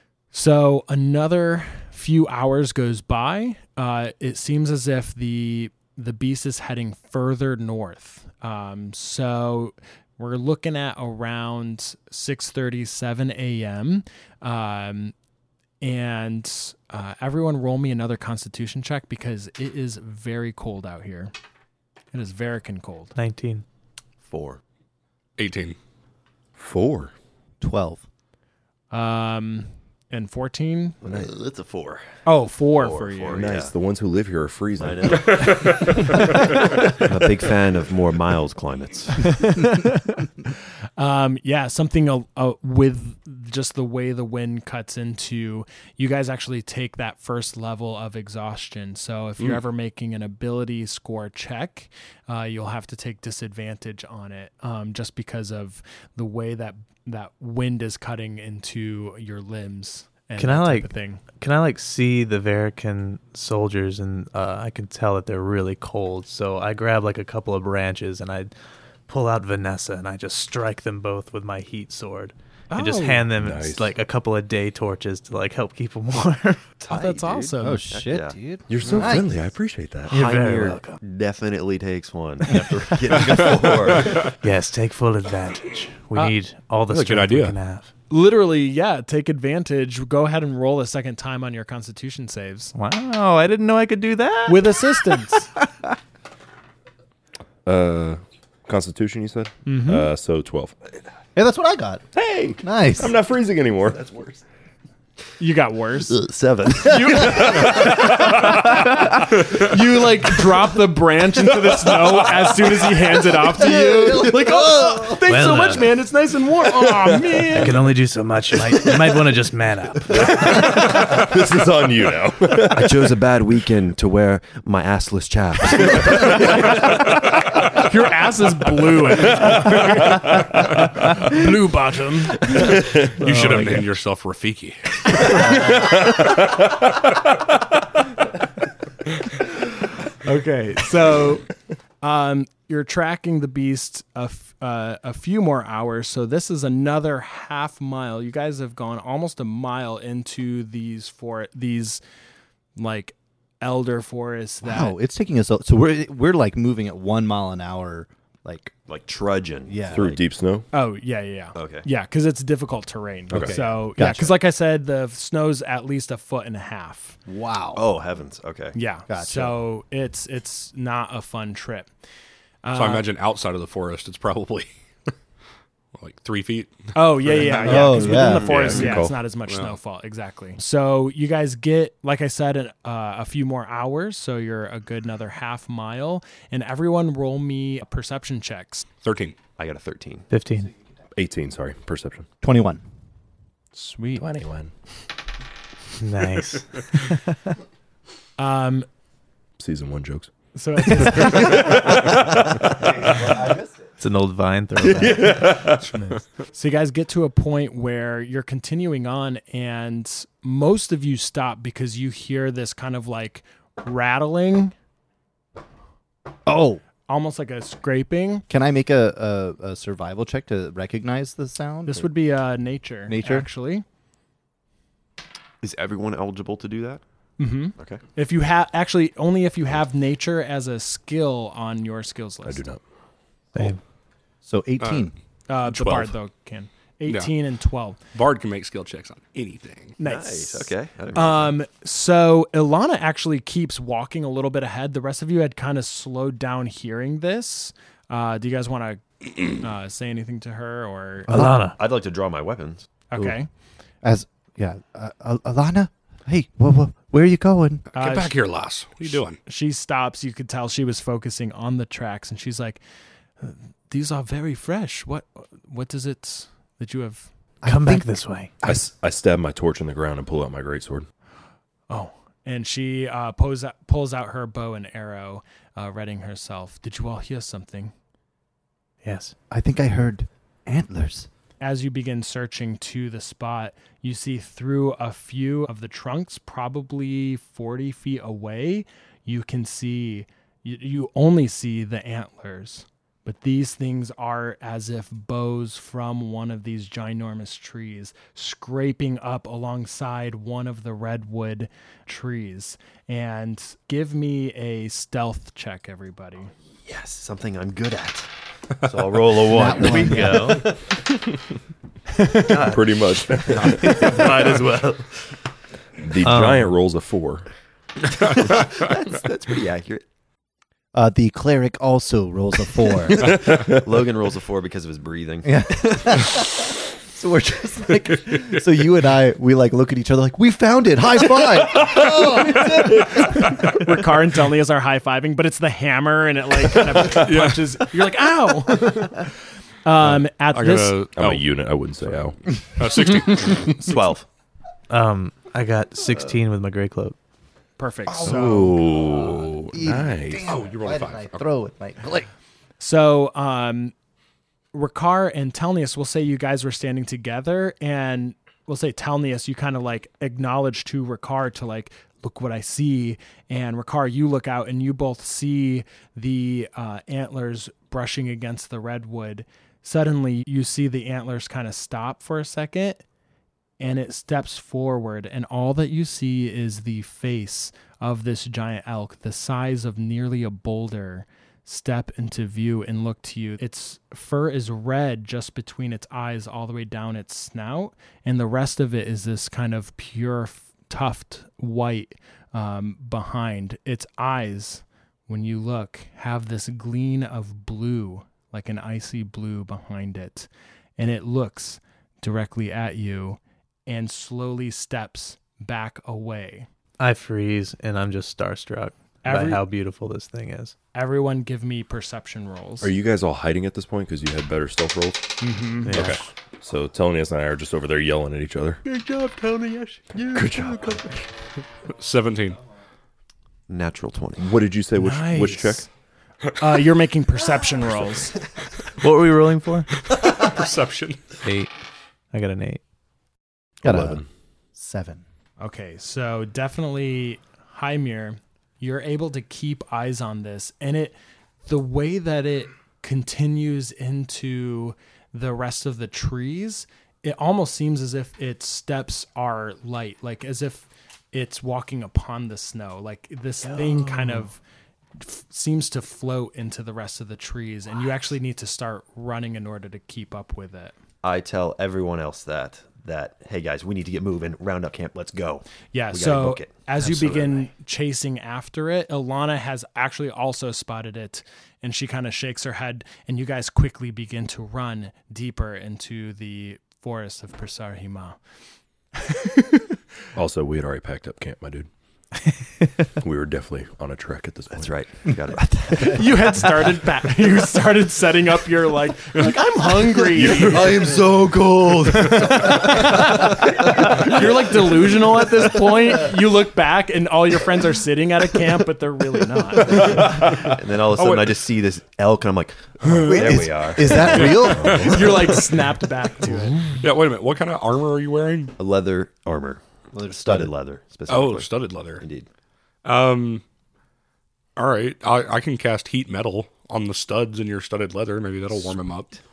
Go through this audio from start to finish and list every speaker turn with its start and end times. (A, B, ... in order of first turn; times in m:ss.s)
0:00.3-0:15.1 A
0:15.8-0:21.3 A
0:22.1-0:23.2 A
0:23.2-0:23.6 B
0:24.2-0:24.6 C
0:25.4-0:25.8 D
0:26.6-0:27.1 E
0:27.6-0:28.0 F
0:28.9-0:31.0 A
0:31.0-0:32.1 C
0:32.2-0:33.5 A
0:32.8-0:33.7 C
0:33.3-0:35.8 E
0:34.8-0:39.5 C
0:39.4-0:40.2 A
0:41.0-1:01.2 A
1:00.4-1:08.5 B
1:09.1-1:16.6 B
1:12.7-1:13.3 A
1:13.4-1:13.9 E
1:16.8-1:19.3 C
1:16.9-1:17.9 A
1:17.6-1:19.3 F
1:18.7-1:20.2 E
1:20.1-1:21.0 B
1:20.1-1:24.3 C
1:22.5-1:23.4 B
1:24.1-1:27.9 B
1:26.9-1:27.6 D
1:28.1-1:32.7 A
1:32.8-1:35.6 B
1:34.5-1:35.5 A
1:37.6-1:40.8 E
1:39.6-1:40.1 A
1:41.4-1:42.1 F
1:42.1-1:44.4 E
1:42.6-1:43.1 F
1:45.4-1:46.2 A
1:46.1-1:47.9 C
1:46.8-1:57.9 A
1:53.6-1:55.2 F
1:55.3-1:55.9 B
1:57.5-2:01.0 B
2:00.2-2:03.2 E
2:02.7-2:06.9 C
2:06.4-2:06.9 A
2:07.6-2:13.8 A
2:13.2-2:15.4 D
2:15.3-2:15.5 A
2:20.2-2:32.0 A
2:32.8-2:35.0 A
2:34.6-2:38.7 F
2:38.9-2:40.2 C
2:39.7-2:40.1 F
2:39.9-2:40.7 E
2:40.7-2:47.2 A
2:41.6-2:41.9 C
2:43.3-2:43.6 E
2:43.3-2:44.4 F
2:47.3-2:47.9 F
2:47.8-2:48.8 C
2:48.7-2:51.9 A
2:49.1-2:49.6 F
2:52.6-2:53.0 A
2:52.7-2:54.7 D
2:56.0-2:58.0 D
2:57.0-3:08.9 A
2:57.6-2:58.9 F
2:58.3-2:59.2 E
2:59.5-2:59.8 D
3:09.0-3:09.4 D
3:09.6-3:10.3 C
3:10.3-3:10.7 B
3:11.2-3:12.3 E
3:12.4-3:12.8 F
3:13.8-3:14.3 A
3:14.2-3:14.7 E
3:16.0-3:17.4 B
3:18.4-3:18.9 A
3:19.6-3:20.3 E
3:20.5-3:22.0 A
3:23.0-3:23.7 F
3:24.0-3:25.6 B
3:24.9-3:25.8 E
3:25.9-3:34.7 A
3:36.5-3:36.8 F
3:37.1-3:38.4 A
3:38.5-3:42.1 F
3:41.9-3:43.8 A
3:43.1-3:43.5 F
3:45.6-3:47.0 C
3:47.4-3:52.6 A
3:52.4-3:52.8 E
3:54.4-3:55.1 F
3:54.8-3:55.1 D
3:55.5-3:58.0 A
3:55.7-3:56.1 D
3:57.1-3:57.3 D
3:58.1-3:59.9 D
4:00.0-4:11.4 A
4:00.0-4:01.5 C
4:11.3-4:11.7 F
4:11.3-4:11.8 B
4:11.8-4:12.9 C
4:13.1-4:13.5 A
4:14.0-4:17.8 F
4:17.9-4:18.4 A
4:17.9-4:19.4 D
4:19.0-4:22.8 A
4:23.4-4:27.3 A
4:27.6-4:28.1 F
4:27.6-4:28.5 B
4:28.6-4:31.1 E
4:31.9-4:37.9 A
4:39.0-4:39.3 B
4:39.5-4:41.3 F
4:41.6-5:06.5 A
5:06.9-5:08.3 C
5:08.8-5:11.0 C
5:09.4-5:10.6 F
5:09.8-5:10.7 B
5:12.2-5:12.5 A
5:12.4-5:15.1 C
5:12.6-5:14.0 E
5:16.0-5:17.5 E
5:16.2-5:16.7 B
5:18.1-5:20.0 C
5:20.9-5:23.4 F
5:23.1-5:26.0 C
5:25.4-5:33.8 F
5:33.5-5:39.3 A
5:37.1-5:37.8 D
5:39.8-5:41.0 A
5:40.5-5:41.5 D
5:41.2-5:42.4 E
5:42.8-5:43.8 D
5:43.8-5:44.3 C
5:44.9-5:47.2 B
5:47.8-5:48.8 A
5:48.2-5:50.5 E
5:48.3-5:48.8 F
5:49.7-5:52.3 F
5:50.4-5:51.5 D
5:52.8-5:53.9 A
5:54.7-6:13.0 A
6:13.8-6:46.7 A
6:47.0-6:50.8 B
6:49.2-6:49.6 A
6:50.9-6:52.9 A
6:52.8-6:55.3 E
6:55.4-6:56.0 A
6:55.8-6:56.2 B
6:55.9-6:58.8 E
6:58.9-7:01.1 C
7:00.3-7:01.0 E
7:01.9-7:02.6 D
7:03.7-7:04.6 C
7:04.4-7:05.9 E
7:05.0-7:05.9 A
7:06.6-7:08.4 A
7:09.0-7:09.9 B
7:10.0-7:11.4 D
7:11.4-7:11.7 B
7:12.3-7:12.8 B
7:13.8-7:14.2 F
7:13.8-7:14.2 E
7:14.8-7:15.2 F
7:15.6-7:34.6 A
7:33.6-7:34.5 B
7:35.2-7:40.9 A
7:41.2-7:47.7 C
7:45.9-7:58.4 A
7:59.2-7:59.9 A
8:00.4-8:01.9 E
8:03.2-8:05.0 E
8:04.7-8:06.1 C
8:05.5-8:06.4 F
8:06.0-8:11.2 A
8:10.3-8:14.7 C
8:10.6-8:10.8 D
8:12.6-8:20.2 A
8:19.9-8:21.6 D
8:19.9-8:25.2 C
8:23.2-8:25.4 F
8:24.1-8:25.8 D
8:24.8-8:26.9 A
8:27.0-8:28.7 D
8:28.8-8:29.8 C
8:30.1-8:30.7 F
8:30.3-8:32.5 C
8:31.3-8:32.2 D
8:33.0-8:33.6 D
8:34.8-8:39.4 D